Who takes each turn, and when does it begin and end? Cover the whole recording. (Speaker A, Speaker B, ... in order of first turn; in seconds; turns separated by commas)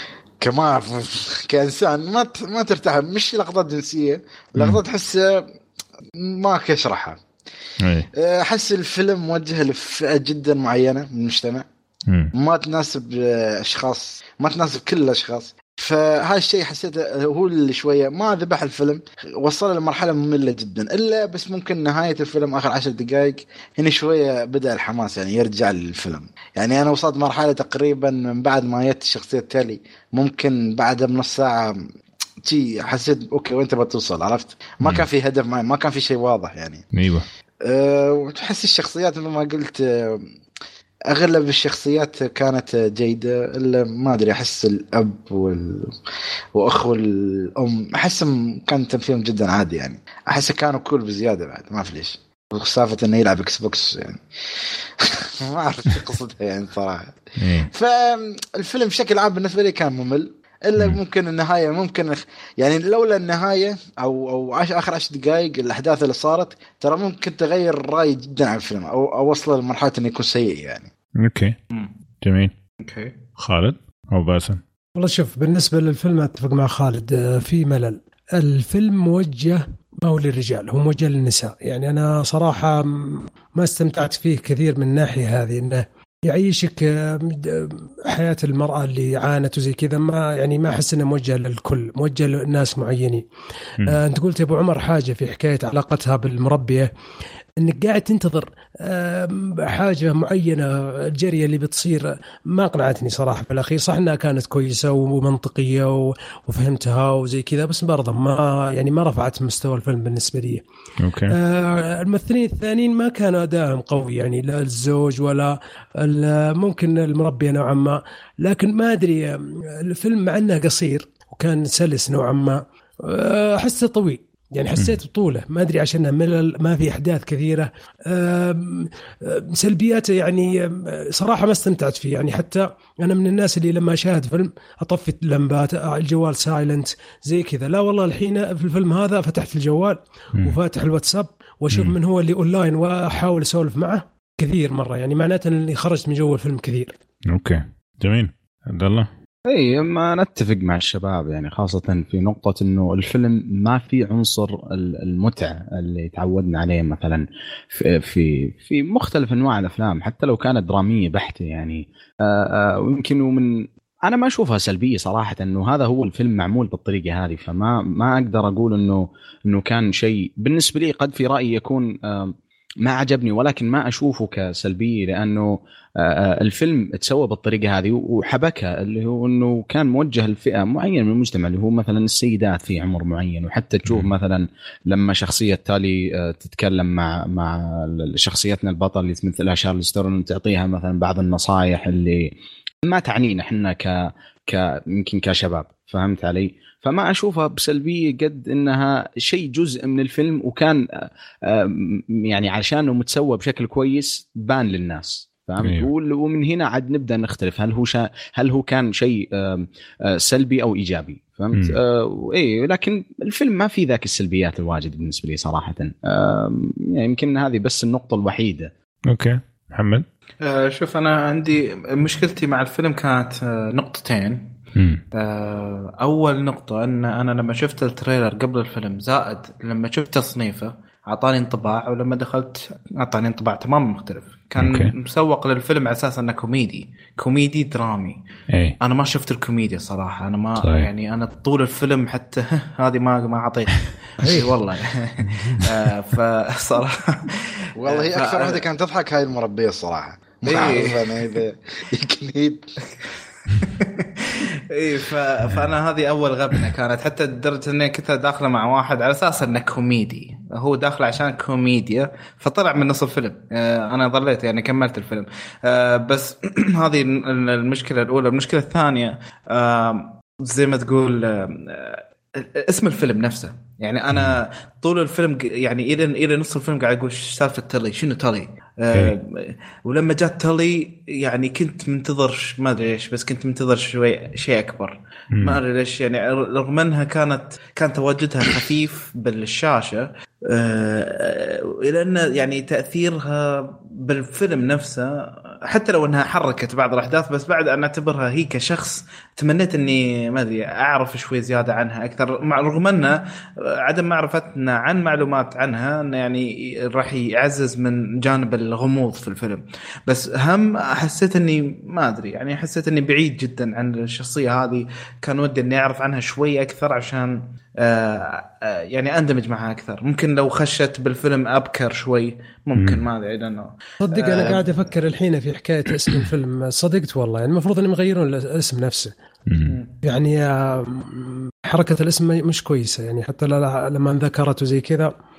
Speaker A: 0.4-5.5, Speaker B: 4.6-4.8, Speaker A: 6.2-7.2, Speaker B: 7.8-8.1, Speaker A: 8.1-11.7, Speaker A: 12.3-31.8, Speaker A: 32.4-36.8, Speaker B: 36.9-37.2, Speaker A: 37.6-40.2, Speaker A: 41.1-45.9, Speaker A: 46.5-54.2, Speaker A: 55.0-57.2, Speaker B: 57.4-57.7, Speaker A: 57.7-70.9, Speaker B: 71.2-71.5, Speaker B: 72.2-72.5, Speaker C: 72.8-73.2, Speaker B: 73.4-74.6, Speaker D: 75.0-93.2, Speaker D: 93.8-96.9, Speaker D: 97.6-110.6, Speaker B: 111.0-111.3, Speaker D: 111.3-147.0, Speaker B: 147.3-149.1, Speaker E: 149.5-218.7, Speaker B: 183.8-184.1, Speaker B: 205.6-205.9, Speaker B: 211.5-211.8, Speaker B: 219.1-220.1, Speaker C: 220.4-224.6, Speaker B: 224.8-225.0, Speaker C: 225.1-238.2, Speaker B: 234.6-234.9, Speaker B: 238.5-238.8, Speaker C: 238.8-248.6, Speaker B: 240.6-240.9, Speaker A: 247.8-252.6, Speaker C: 250.4-251.3, Speaker C: 253.0-324.9, Speaker B: 274.1-274.4, Speaker B: 322.8-323.0, Speaker D: 324.0-329.1, Speaker B: 329.5-329.8, Speaker C: 329.6-330.0, Speaker D: 330.0-335.1